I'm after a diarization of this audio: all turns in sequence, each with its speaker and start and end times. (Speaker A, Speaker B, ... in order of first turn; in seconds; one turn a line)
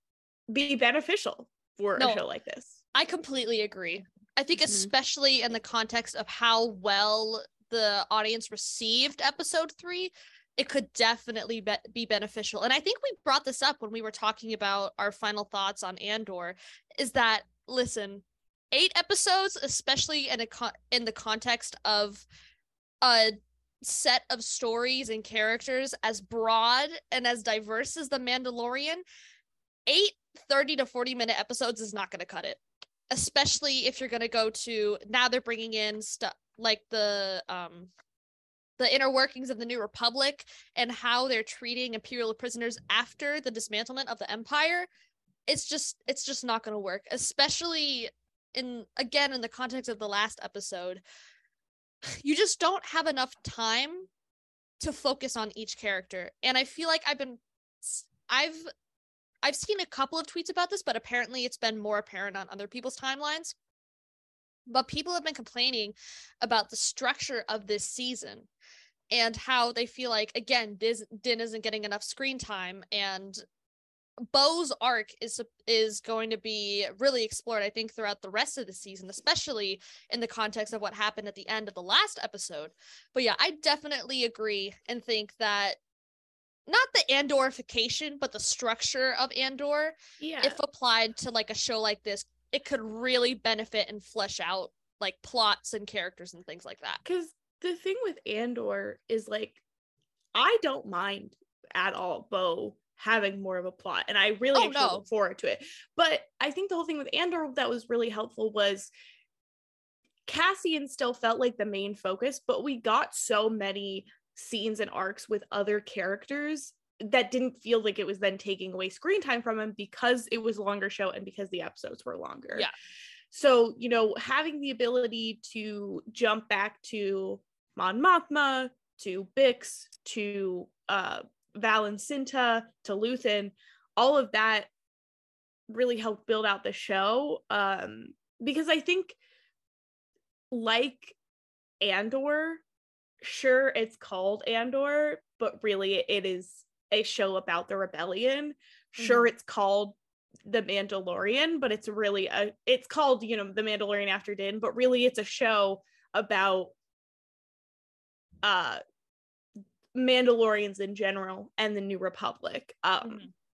Speaker A: 0.5-2.8
Speaker B: 2.0-2.2
Speaker B: 2.9-22.3
Speaker B: 23.0-29.0
Speaker B: 29.9-37.9
Speaker B: 38.8-44.9
Speaker B: 45.5-51.0
Speaker B: 52.2-54.1
Speaker B: 54.8-58.7
Speaker B: 59.4-63.5
Speaker B: 64.7-68.5
Speaker B: 69.1-73.4
Speaker B: 74.3-85.8
Speaker B: 86.7-97.0
Speaker A: 90.2-90.6
Speaker A: 97.0-99.6
Speaker A: 100.3-108.9
Speaker B: 104.5-105.0
Speaker A: 110.3-122.7
Speaker A: 123.3-134.7
Speaker A: 135.7-139.2
Speaker A: 140.5-141.2
Speaker A: 141.8-142.6
Speaker A: 143.2-156.7
Speaker B: 149.0-149.3
Speaker A: 158.4-158.8
Speaker A: 159.9-163.2
Speaker B: 163.0-163.3